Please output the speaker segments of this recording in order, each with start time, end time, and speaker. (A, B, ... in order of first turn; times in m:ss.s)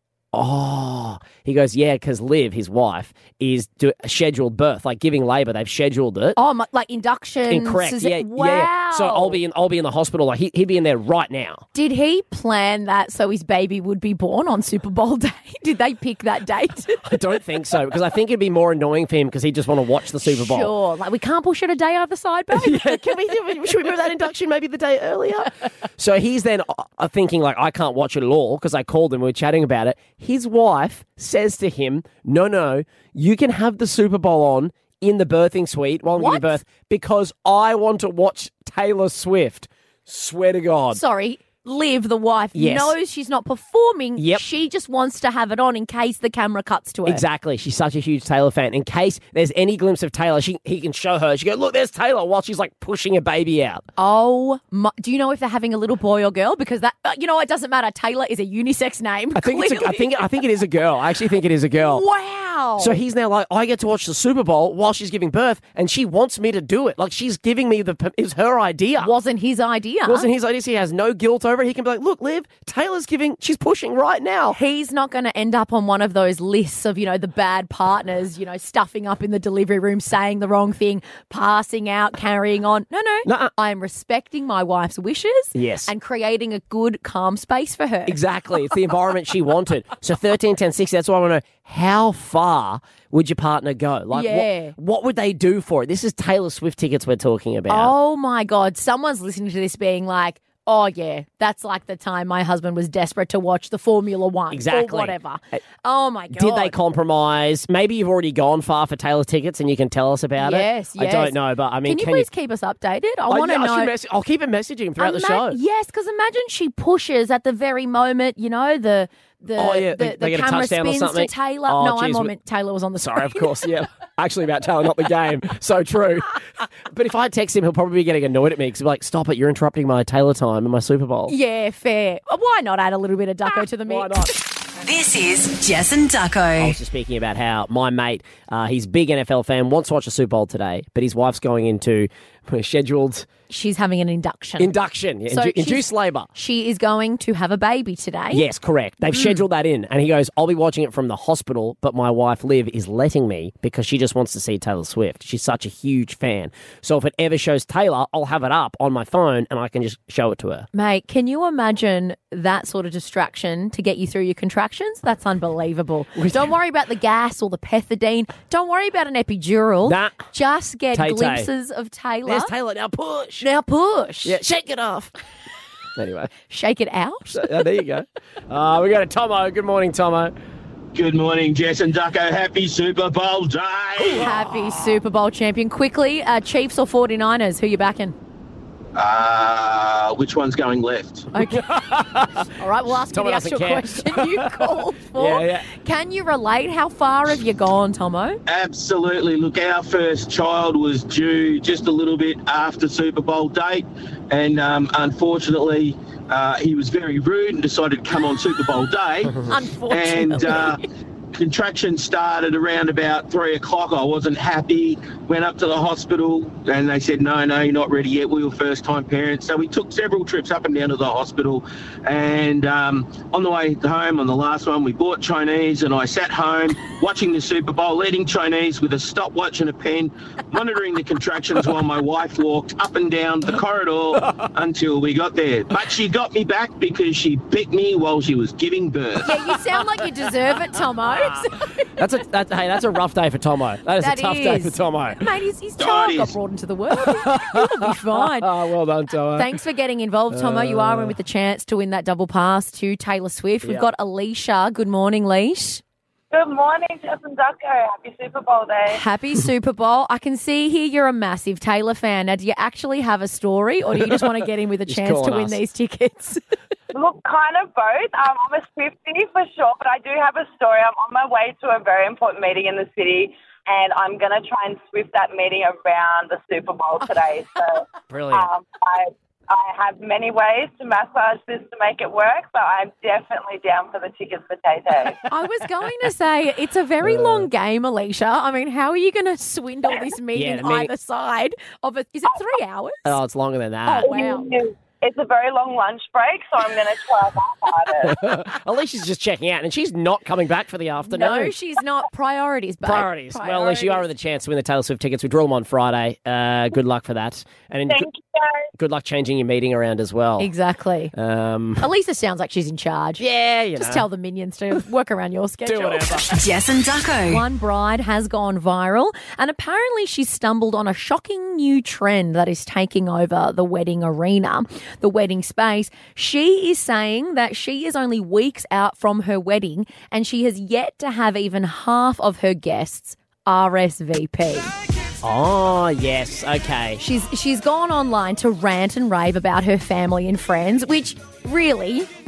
0:00.3-0:06.4 A
0:06.4-0:09.4 B
0:07.5-0:11.6 A
0:11.7-0:17.2 B
0:17.0-0:20.7 A
0:20.2-0:23.4 B
0:22.5-0:41.0 A
0:36.2-0:36.6 B
0:40.9-0:47.2 B
0:42.5-0:42.9 A
0:44.2-0:44.4 A
0:47.0-0:53.8 A
0:54.0-1:00.3 B
0:59.3-1:02.0 A
1:01.8-1:03.0 B
1:02.8-1:09.1 A
1:09.0-1:10.3 B
1:10.0-1:14.6 A
1:14.5-1:28.2 B
1:23.2-1:23.5 A
1:25.5-1:25.9 A
1:28.1-1:37.9 A
1:34.1-1:34.7 B
1:37.7-1:46.7 B
1:44.5-1:45.2 A
1:46.3-1:52.3 A
1:50.4-1:53.9 B
1:53.3-1:55.6 A
1:55.0-2:03.7 B
1:59.6-2:02.3 A
2:03.0-2:11.3 A
2:11.3-2:14.3 B
2:13.8-2:14.3 A
2:14.8-2:16.8 C
2:16.6-2:23.3 A
2:23.5-2:24.7 B
2:24.6-2:26.3 A
2:25.3-2:28.4 B
2:28.3-2:40.7 A
2:40.7-2:52.5 B
2:46.2-2:46.5 A
2:49.8-2:50.2 A
2:50.9-2:51.5 A
2:52.2-2:53.5 A
2:53.4-2:54.4 B
2:54.2-2:55.1 A
2:56.0-2:56.3 A
2:56.5-2:57.6 B
2:57.3-3:00.3 A
3:00.9-3:04.3 D
3:04.1-3:08.1 B
3:04.1-3:05.0 A
3:08.9-3:11.3 D
3:11.3-3:11.7 B
3:11.4-3:12.5 A
3:12.6-3:18.4 B
3:13.1-3:15.7 A
3:18.5-3:30.8 D
3:29.4-3:30.8 B
3:31.3-3:59.3 D
3:59.2-4:01.9 B
4:02.0-4:05.2 A
4:04.0-4:08.5 B
4:05.8-4:06.4 D
4:07.0-4:09.5 A
4:09.3-4:15.8 B
4:10.3-4:11.1 A
4:16.3-4:19.0 E
4:18.9-4:26.4 B
4:24.0-4:24.3 A
4:24.9-4:25.6 A
4:26.9-4:45.2 E
4:38.1-4:38.5 A
4:45.3-4:53.2 B
4:47.0-4:47.5 A
4:50.3-4:50.9 A
4:53.0-4:54.2 A
4:53.8-4:54.5 B
4:54.0-4:58.2 E
4:58.0-5:01.5 A
5:01.0-5:04.0 B
5:02.8-5:08.1 A
5:07.9-5:08.7 E
5:08.8-5:10.5 A
5:10.4-5:11.1 B
5:11.1-5:11.9 A
5:11.8-5:13.2 B
5:13.2-5:14.0 A
5:13.8-5:16.3 B
5:15.6-5:16.3 A
5:16.3-5:17.4 C
5:17.3-5:34.7 B
5:35.2-5:37.0 A
5:37.0-5:42.1 B